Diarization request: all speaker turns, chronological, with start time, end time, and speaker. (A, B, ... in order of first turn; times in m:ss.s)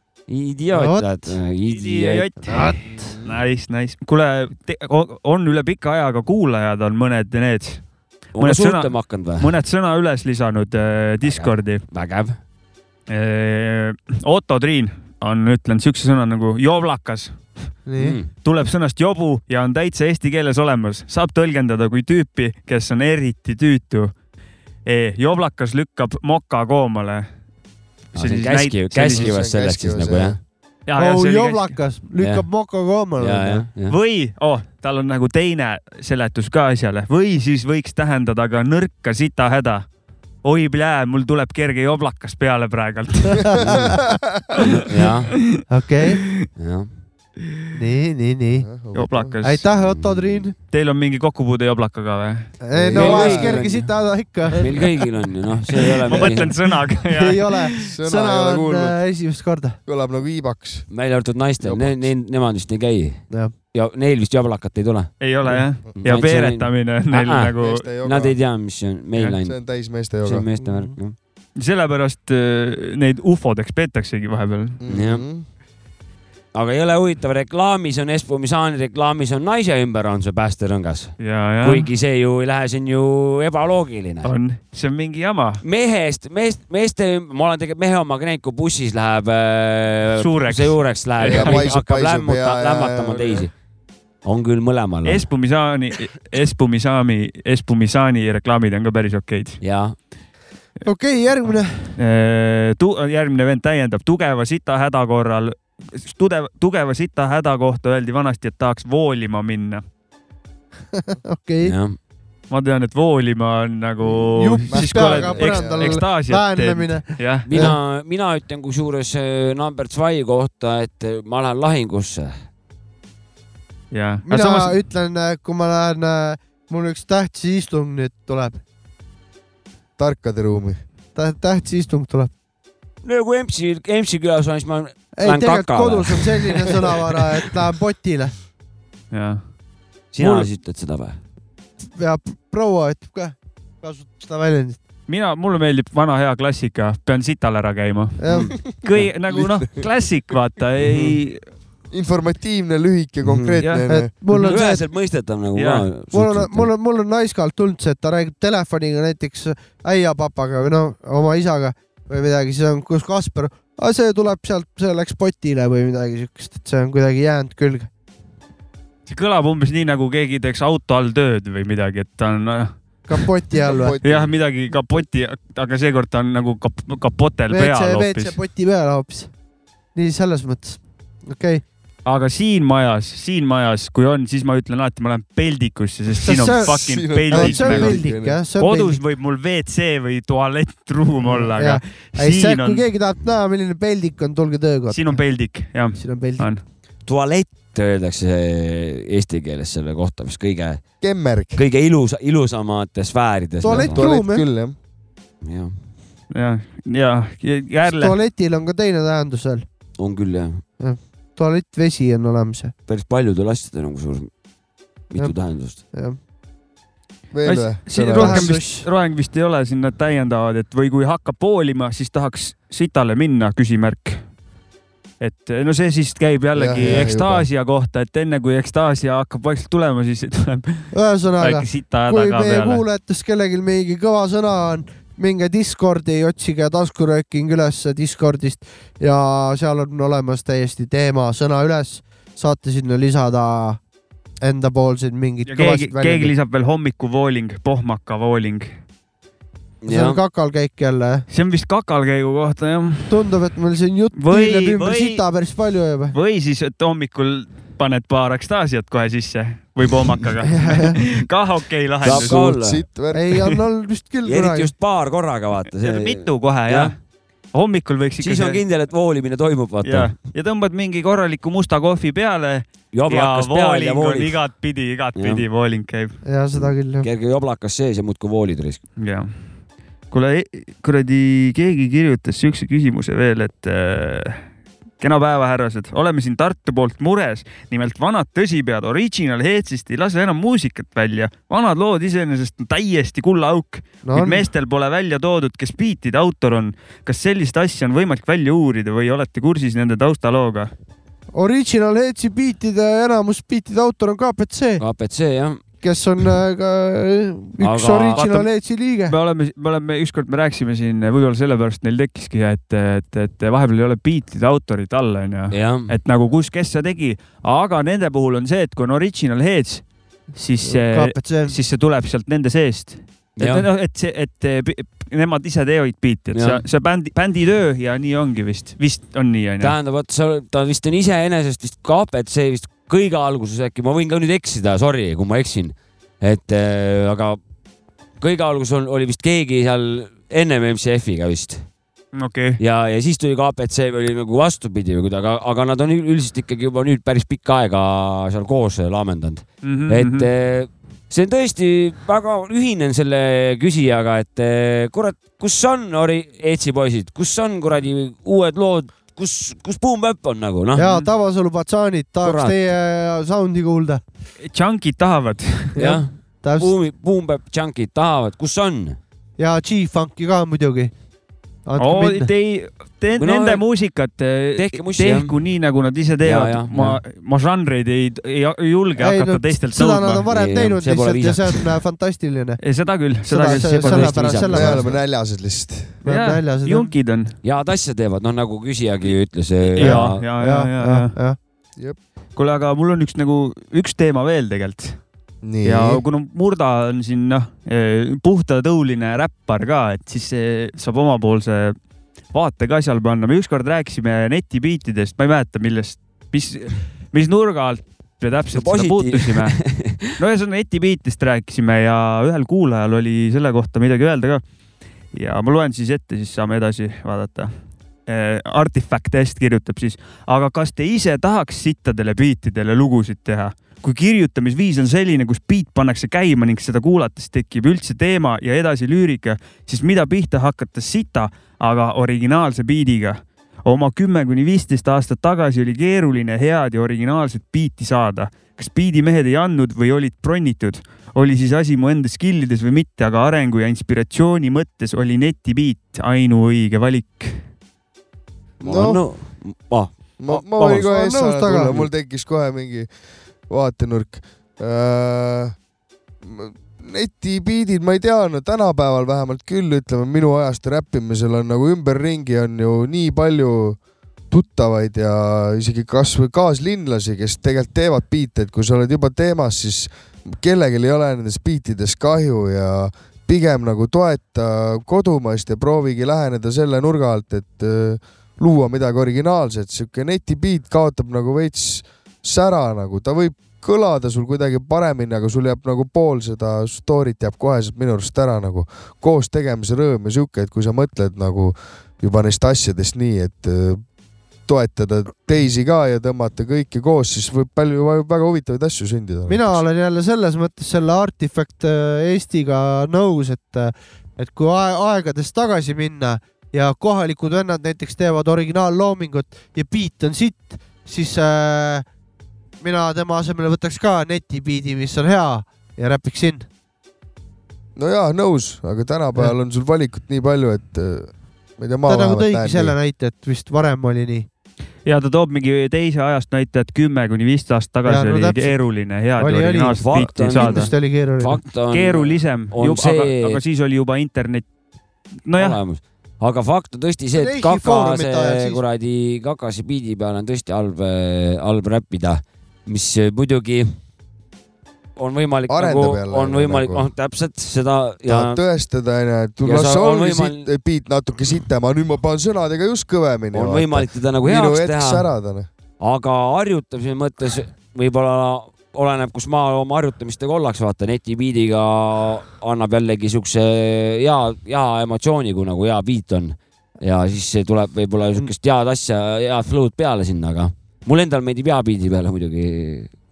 0:00.3-0:02.6 A
0:00.7-0:01.4 B
0:01.6-0:07.8 C
0:02.5-0:03.0 B
0:02.8-0:03.4 D
0:08.4-0:09.5 A
0:08.4-0:11.8 C
0:11.2-0:12.4 A
0:13.1-0:17.4 C
0:17.9-0:18.2 B
0:18.0-0:18.3 A
0:18.4-0:24.1 C
0:24.8-0:27.3 C
0:28.2-0:29.4 C
0:28.2-0:30.4 A
0:29.0-0:30.4 D
0:30.9-0:31.8 C
0:31.0-0:33.6 B
0:32.2-0:32.4 A
0:33.2-0:34.0 A
0:33.9-0:39.9 C
0:40.4-0:43.7 C
0:43.4-0:43.9 B
0:43.6-0:44.5 D
0:44.6-0:45.4 A
0:45.0-0:45.6 C
0:45.7-0:46.2 B
0:46.6-0:46.9 A
0:47.7-0:48.7 B
0:48.6-0:49.3 D
0:48.9-0:49.6 C
0:49.4-0:50.5 B
0:49.9-0:50.3 A
0:50.7-0:52.5 C
0:52.6-0:54.9 B
0:52.7-0:53.7 D
0:52.9-0:53.9 A
0:54.6-0:56.5 A
0:56.1-0:57.9 C
0:57.1-0:59.8 B
0:57.8-0:59.0 D
0:59.9-1:00.9 D
1:00.9-1:05.1 A
1:01.6-1:02.1 D
1:05.2-1:07.9 C
1:06.0-1:09.6 A
1:07.6-1:08.4 D
1:09.4-1:10.5 D
1:10.2-1:11.2 A
1:10.6-1:10.9 B
1:11.6-1:14.8 C
1:14.8-1:15.5 D
1:14.9-1:15.2 A
1:16.5-1:24.3 A
1:21.2-1:21.9 C
1:24.2-1:25.6 C
1:25.6-1:33.5 A
1:30.2-1:31.7 C
1:31.2-1:33.5 D
1:34.2-1:35.3 A
1:35.0-1:39.6 C
1:39.6-1:40.0 A
1:40.8-1:41.9 B
1:42.0-1:49.8 C
1:51.1-1:51.8 B
1:51.6-1:52.0 A
1:52.5-1:57.7 C
1:54.3-1:57.8 B
1:54.7-1:56.0 D
1:57.5-2:02.4 A
2:03.9-2:04.8 C
2:04.3-2:08.6 B
2:10.0-2:10.8 D
2:11.2-2:12.3 B
2:13.0-2:17.1 A
2:15.2-2:18.3 B
2:19.1-2:19.4 C
2:20.1-2:21.2 A
2:20.2-2:20.5 C
2:21.9-2:24.8 B
2:25.1-2:31.4 C
2:28.2-2:28.5 B
2:28.7-2:29.9 D
2:30.8-2:31.2 D
2:31.9-2:34.1 D
2:33.2-2:33.6 A
2:33.6-2:33.9 C
2:33.9-2:34.8 B
2:34.2-2:36.7 A
2:35.6-2:35.9 C
2:36.1-2:47.9 B
2:49.1-2:53.2 C
2:53.1-2:54.0 B
2:53.6-2:54.3 D
2:54.0-2:58.4 C
2:57.5-2:59.3 B
3:00.0-3:01.6 B
3:02.1-3:12.8 C
3:06.2-3:08.4 D
3:06.2-3:09.0 B
3:11.2-3:15.2 B
3:14.9-3:16.6 C
3:16.0-3:16.5 B
3:17.1-3:20.8 A
3:21.0-3:21.6 D
3:21.6-3:24.0 A
3:23.6-3:24.5 B
3:23.6-3:24.8 D
3:25.4-3:25.7 A
3:26.3-3:28.2 C
3:27.9-3:29.6 B
3:30.0-3:30.6 A
3:30.8-3:32.7 B
3:32.9-3:34.3 A
3:35.1-3:35.8 A
3:35.2-3:36.2 B
3:37.3-3:38.5 D
3:37.4-3:44.2 C
3:38.1-3:38.9 B
3:45.2-3:52.8 C
3:46.6-3:47.5 D
3:50.9-4:03.8 B
4:04.4-4:06.3 B
4:05.5-4:08.7 C
4:09.8-4:10.2 A
4:09.9-4:11.2 B
4:11.3-4:13.1 C
4:13.1-4:16.1 B
4:14.2-4:15.2 C
4:16.1-4:22.5 C
4:20.5-4:21.0 B
4:22.0-4:22.8 A
4:22.0-4:23.6 D
4:23.1-4:24.7 B
4:24.2-4:26.9 A
4:25.7-4:27.0 C
4:27.5-4:28.6 C
4:28.2-4:30.1 A
4:29.8-4:36.2 C
4:32.9-4:34.4 A
4:35.2-4:35.4 A
4:36.2-4:37.1 B
4:36.6-4:38.8 A
4:39.0-4:39.4 C
4:40.1-4:44.4 C
4:45.0-5:00.7 C
4:54.0-4:54.5 B
5:01.3-5:04.8 B
5:04.8-5:05.6 A
5:05.8-5:09.1 B
5:07.6-5:08.4 A
5:08.2-5:08.5 C
5:09.1-5:19.8 C
5:15.5-5:15.9 A
5:20.3-5:29.8 C
5:20.6-5:21.6 B
5:23.4-5:23.6 A
5:26.3-5:26.6 A
5:29.6-5:37.4 A
5:38.2-5:41.6 A
5:42.1-5:42.6 C
5:42.6-6:00.8 A
5:49.6-5:50.3 C
6:00.8-6:04.0 B
6:00.8-6:01.1 C
6:02.2-6:02.6 A
6:04.4-6:05.9 C
6:05.8-6:09.0 A
6:06.4-6:06.7 B
6:09.4-6:10.9 B
6:11.7-6:12.3 B
6:11.8-6:20.2 C
6:13.2-6:13.6 A
6:14.6-6:15.3 A
6:16.2-6:17.0 A
6:19.0-6:22.6 B
6:20.3-6:21.7 A
6:22.6-6:24.2 C
6:23.3-6:24.8 B
6:23.4-6:25.0 A
6:24.5-6:26.0 D
6:26.0-6:26.9 B
6:26.0-6:27.4 C
6:27.4-6:30.2 A
6:29.8-6:31.2 C
6:29.8-6:31.4 B
6:32.4-6:35.0 C
6:35.4-6:36.0 D
6:35.6-6:41.8 C
6:42.3-6:49.6 C
6:48.5-6:50.1 A
6:50.2-6:54.4 C
6:55.1-6:57.5 C
6:58.1-7:27.4 C
7:28.6-7:29.0 D
7:28.6-7:30.9 A
7:30.2-7:32.9 D
7:30.9-7:31.8 B
7:33.5-7:35.6 D
7:36.2-7:43.8 D
7:44.3-8:13.8 D
8:14.5-8:19.6 D
8:19.3-8:31.8 B
8:32.6-8:36.5 B
8:37.8-8:42.8 D
8:41.9-8:44.3 B
8:44.9-8:50.7 C
8:47.9-8:48.6 B
8:49.2-8:49.8 B
8:49.8-8:53.4 A
8:50.3-8:51.4 B
8:51.7-8:54.5 C
8:55.3-8:55.6 C
8:55.4-9:03.8 A
8:57.2-8:58.6 B
9:05.0-9:08.4 A
9:05.5-9:06.9 D
9:08.1-9:15.5 D
9:09.4-9:10.5 A
9:13.3-9:15.1 A
9:15.8-9:32.9 A